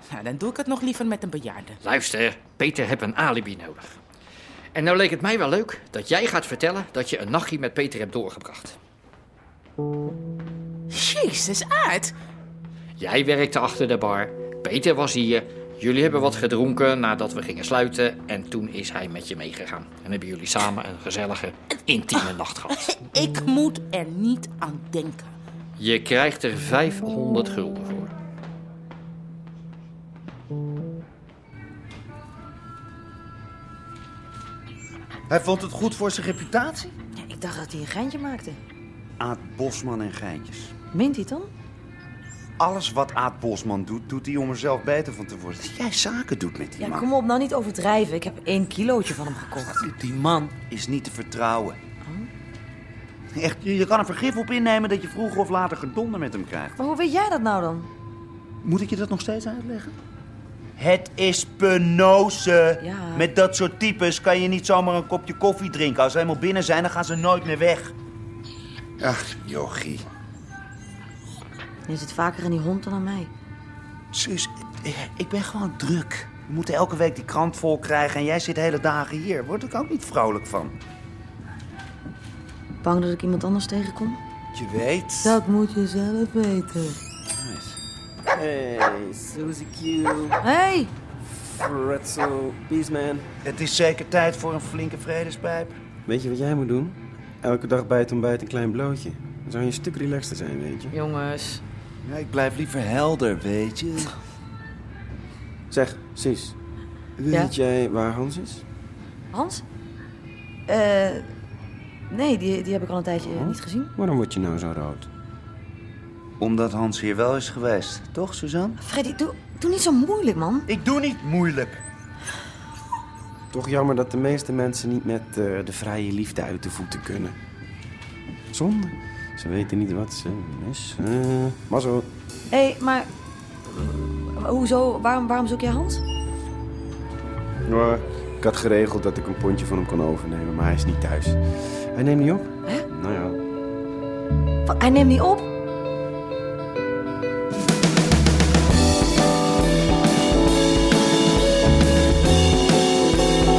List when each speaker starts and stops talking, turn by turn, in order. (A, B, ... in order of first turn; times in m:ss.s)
0:00.1-0:01.8 A
0:01.8-0:04.0 B
0:04.8-0:08.8 B
0:10.9-0:12.1 A
0:13.0-0:22.9 B
0:22.8-0:25.3 A
0:25.8-0:28.1 B
0:35.3-0:36.9 C
0:37.2-0:38.6 D
0:39.2-0:40.8 C
0:40.9-0:41.5 D
0:42.6-0:47.1 C
0:46.8-0:49.8 D
0:49.8-0:51.8 C
0:53.3-0:56.7 C
0:56.8-0:57.9 D
0:58.6-0:59.9 C
1:00.8-1:07.9 C
1:02.8-1:03.3 D
1:09.0-1:10.0 C
1:11.9-1:13.3 D
1:14.1-1:20.8 C
1:22.8-1:24.2 D
1:24.5-1:25.4 C
1:25.2-1:27.0 D
1:27.4-1:27.8 C
1:28.3-1:30.0 E
1:30.4-1:30.9 D
1:31.5-1:33.3 E
1:33.4-1:35.8 C
1:36.1-1:41.0 E
1:40.9-1:41.6 D
1:42.0-1:44.1 C
1:45.7-1:46.6 E
1:47.2-1:48.6 E
1:49.3-1:49.6 D
1:50.7-1:51.3 D
1:52.1-1:53.9 D
1:53.2-1:55.1 E
1:56.4-1:58.8 C
1:58.8-2:00.7 D
2:00.7-2:01.8 C
2:03.5-2:07.4 E
2:08.5-2:12.1 E
2:12.5-2:13.1 D
2:13.8-2:16.0 D
2:17.7-2:23.4 E
2:24.7-2:25.5 D